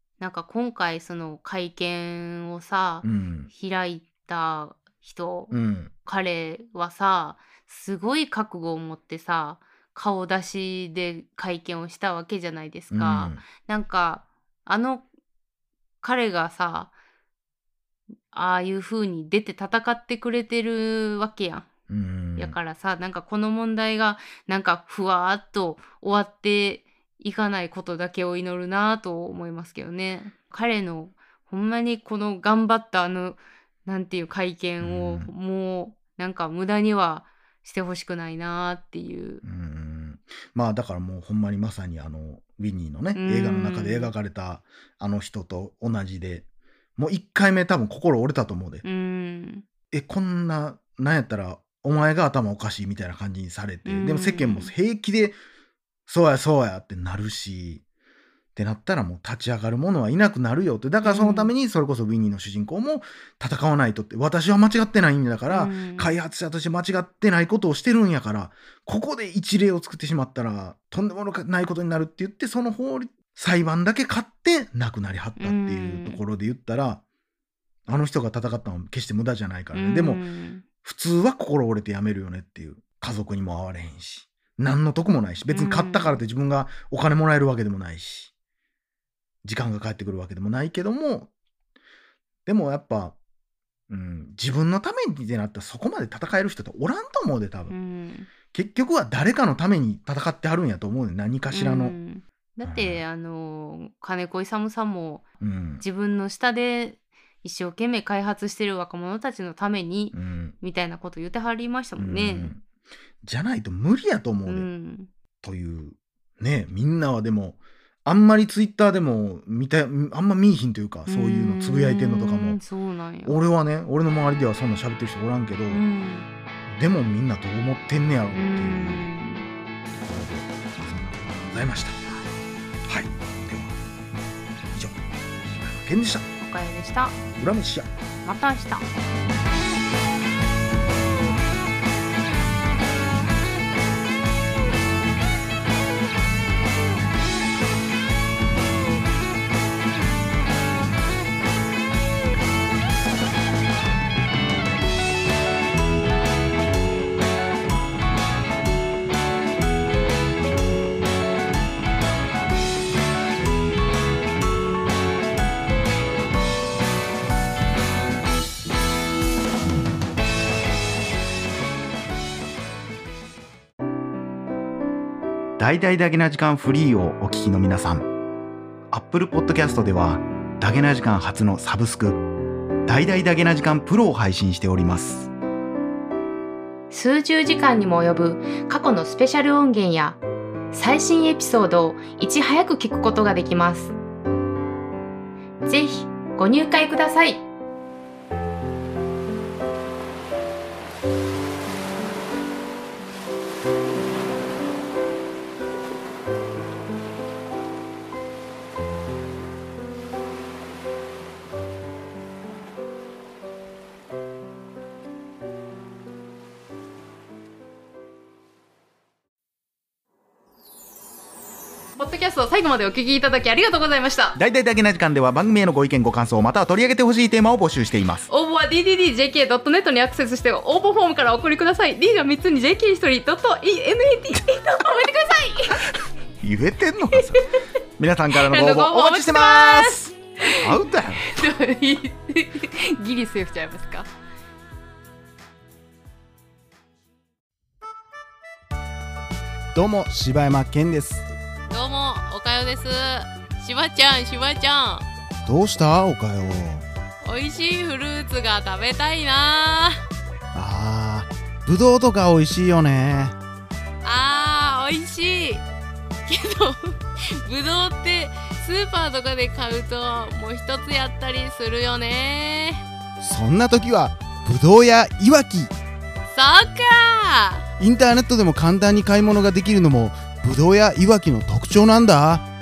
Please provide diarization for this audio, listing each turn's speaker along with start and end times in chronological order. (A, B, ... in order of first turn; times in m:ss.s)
0:00.2-0:05.5 A
0:03.0-0:03.5 B
0:05.5-0:05.9 B
0:06.0-0:15.0 A
0:12.9-0:13.4 B
0:16.0-0:16.9 A
0:18.3-0:21.7 A
0:21.9-0:22.6 B
0:22.4-0:39.4 A
0:34.8-0:35.3 B
0:39.4-0:46.5 B
0:43.2-0:44.1 A
0:47.0-0:48.8 B
0:48.8-0:49.6 A
0:49.9-0:55.4 B
0:53.9-0:54.7 A
0:56.1-0:57.8 B
0:58.6-1:17.0 B
1:01.0-1:01.5 A
1:05.5-1:06.2 A
1:15.4-1:16.2 A
1:17.9-1:20.2 B
1:19.7-1:20.6 A
1:20.8-1:28.3 B
1:25.5-1:26.2 A
1:29.4-1:31.3 B
1:32.5-1:33.2 B
1:33.9-1:37.7 B
1:37.7-1:38.3 A
1:38.5-1:42.0 B
1:41.5-1:45.2 A
1:42.6-1:43.0 B
1:45.4-1:45.8 B
1:45.8-1:52.5 A
1:50.1-1:50.6 B
1:52.0-1:52.6 B
1:53.2-1:54.7 B
1:54.5-1:55.1 A
1:55.4-2:02.6 B
2:01.1-2:03.4 A
2:03.2-2:05.8 B
2:05.7-2:06.3 A
2:06.7-2:09.1 B
2:08.3-2:09.5 A
2:09.9-2:12.2 B
2:12.9-2:13.8 B
2:14.7-2:16.3 B
2:16.4-2:17.2 A
2:17.4-2:17.9 B
2:18.2-2:18.9 A
2:55.6-2:58.1 B
2:58.9-3:02.2 B
3:02.9-3:05.3 B
3:06.9-3:10.2 A
3:10.7-3:14.0 A
3:15.6-3:17.4 A
3:42.0-3:44.4 A
3:44.4-3:48.3 B
3:48.3-3:55.8 A
3:56.4-3:57.4 B
3:58.0-4:01.3 B
3:58.3-4:00.6 A
4:01.2-4:04.1 A
4:09.7-4:11.2 B
4:11.7-4:15.1 A
4:15.4-4:16.9 B
4:17.2-4:20.0 A
4:20.5-4:23.4 B
4:24.0-4:25.6 A
4:26.3-4:32.8 A
4:33.2-4:35.7 B
4:36.3-4:37.6 A
4:37.8-4:42.4 B